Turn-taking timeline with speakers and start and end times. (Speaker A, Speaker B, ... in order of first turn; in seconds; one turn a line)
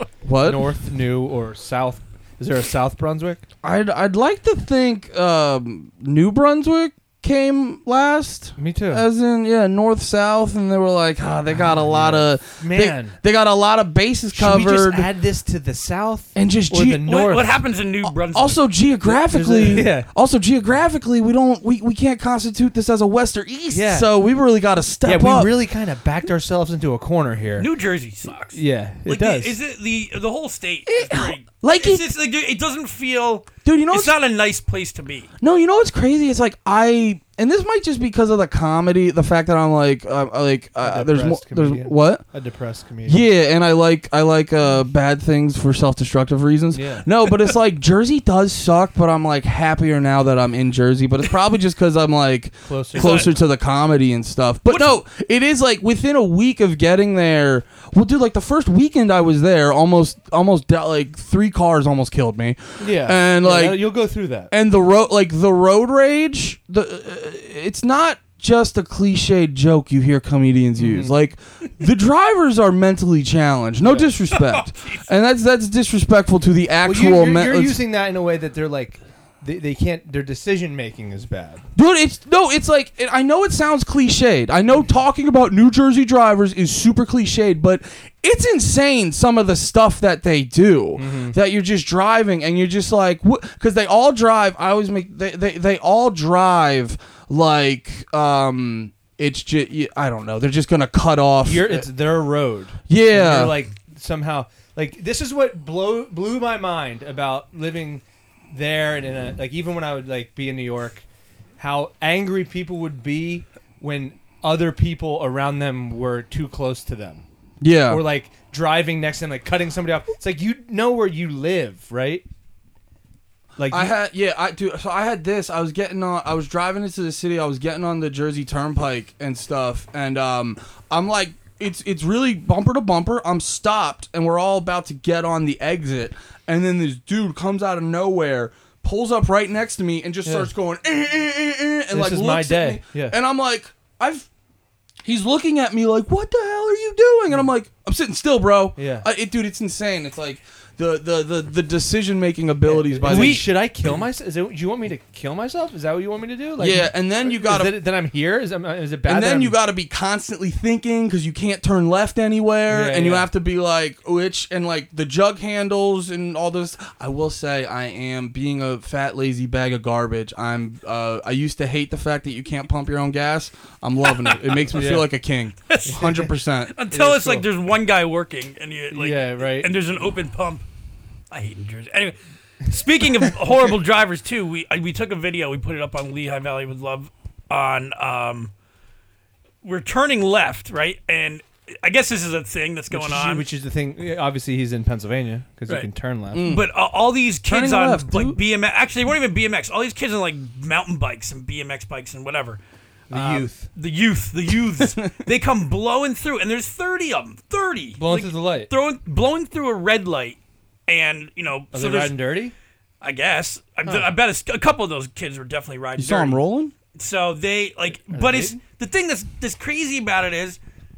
Speaker A: 0.2-0.7
Speaker B: 0.4-3.4
Speaker A: 3.6-15.1
Speaker B: 8.6-9.1
Speaker B: 11.7-13.2
Speaker B: 14.3-17.5
Speaker A: 16.3-17.2
Speaker C: 17.0-18.6
Speaker A: 18.2-25.5
Speaker B: 19.1-20.1
Speaker B: 23.7-24.1
Speaker B: 25.0-27.7
Speaker C: 27.6-35.3
Speaker B: 28.5-29.6
Speaker A: 30.9-32.0
Speaker A: 33.6-34.1
Speaker A: 35.4-42.2
Speaker B: 40.8-43.2
Speaker A: 43.0-63.9
Speaker B: 46.7-47.0
Speaker B: 52.6-53.3
Speaker C: 52.9-53.3
Speaker C: 54.6-54.9
Speaker B: 62.8-64.5
Speaker A: 64.5-77.8
Speaker B: 70.8-71.1
Speaker B: 73.8-74.1
Speaker C: 74.3-75.1
Speaker B: 76.8-81.6
Speaker A: 81.8-101.9
Speaker B: 91.0-91.3
Speaker B: 101.4-111.0
Speaker A: 102.9-103.6
Speaker B: 111.6-117.2
Speaker A: 117.6-118.0
Speaker B: 117.9-122.2
Speaker B: 123.6-123.9
Speaker A: 123.7-144.3
Speaker B: 140.2-140.5
Speaker B: 141.9-143.2
Speaker A: 145.0-153.4
Speaker B: 148.8-149.1
Speaker B: 152.6-159.6
Speaker C: 153.1-153.4
Speaker A: 156.6-157.8
Speaker A: 159.0-176.8
Speaker B: 162.7-163.3
Speaker C: 174.2-174.7
Speaker B: 174.7-175.1
Speaker C: 175.7-175.9
Speaker B: 175.8-176.3
Speaker C: 176.7-180.6
Speaker B: 176.9-177.5
Speaker B: 178.9-179.7
Speaker C: 181.3-188.5
Speaker C: 189.6-193.4
Speaker B: 192.9-196.5
Speaker A: 196.3-196.7
Speaker C: 196.4-202.6
Speaker A: 197.4-198.4
Speaker B: 203.1-203.7
Speaker C: 203.1-212.3
Speaker A: 204.8-205.2
Speaker B: 208.0-208.7
Speaker B: 211.7-212.5
Speaker C: 213.0-216.4
Speaker A: 216.0-216.7
Speaker C: 216.9-220.6
Speaker B: 218.1-218.6